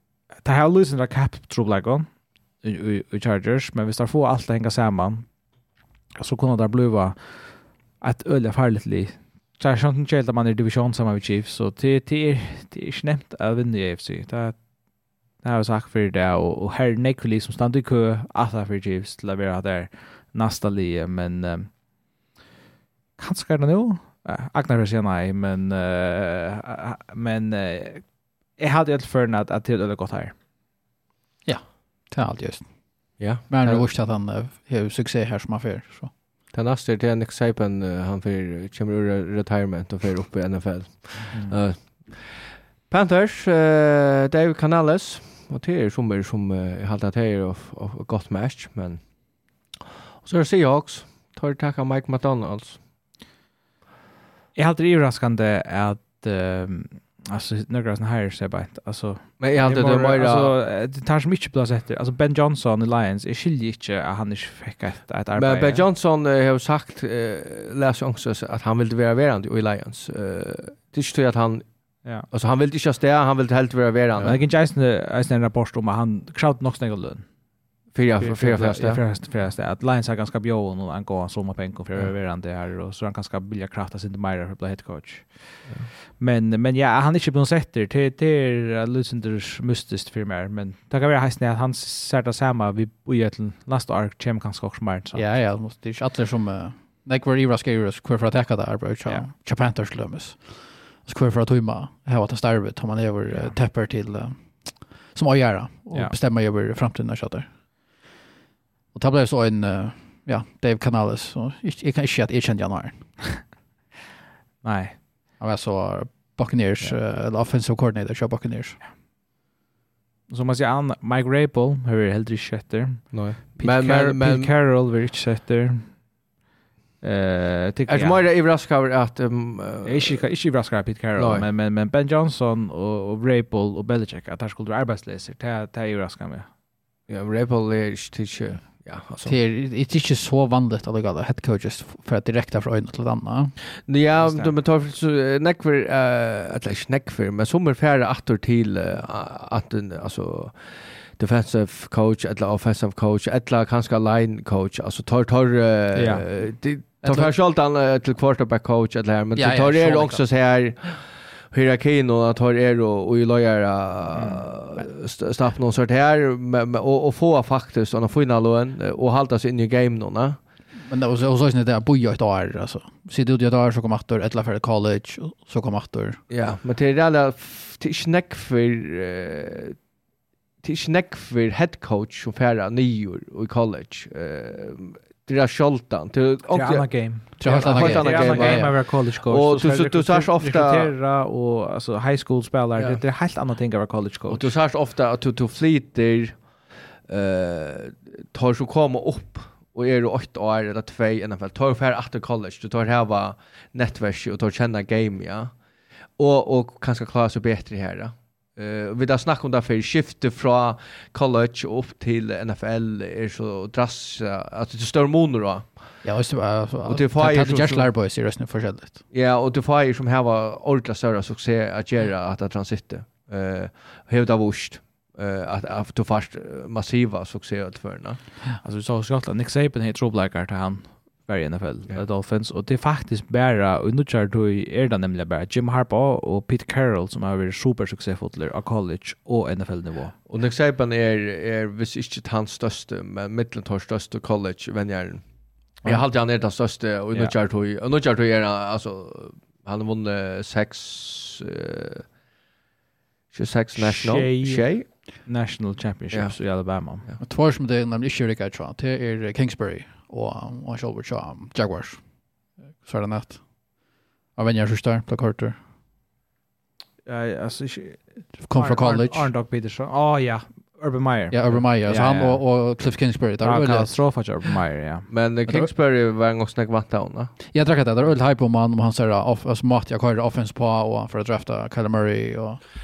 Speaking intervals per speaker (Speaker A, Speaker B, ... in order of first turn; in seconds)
Speaker A: 0.4-5.3, 6.2-21.8, 23.2-30.4, 41.3-41.6, 54.5-65.8, 74.2-77.3, 78.2-95.2, 103.3-103.6, 114.6-115.0, 120.3-126.1, 127.0-128.2, 129.8-136.5, 144.2-144.6, 155.9-156.3, 164.2-164.4, 186.5-194.5, 228.6-240.2, 245.8-246.5, 247.1-247.4, 253.8-257.1, 267.1-275.1
Speaker B: 31.4-36.1, 95.1-107.5, 108.9-113.5, 115.4-118.8, 139.2-143.6, 157.0-157.3, 159.3-160.3, 170.9-176.2, 187.4-188.8, 216.0-219.0, 257.2-265.6, 268.4-269.3, 271.3-274.4, 277.5-282.6
Speaker C: 33.2-33.9, 36.5-49.2, 50.2-52.8, 59.4-60.5, 65.4-71.7, 72.2-74.4, 77.9-79.0, 123.1-124.5, 127.9-130.3, 131.2-131.5, 137.1-139.4, 143.8-170.4, 176.3-179.8, 180.6-190.9, 192.8-193.0, 194.3-205.6, 206.2-216.0, 216.8-217.9, 219.1-228.2, 240.3-252.1, 253.3-254.9, 256.1-257.2, 275.1-277.4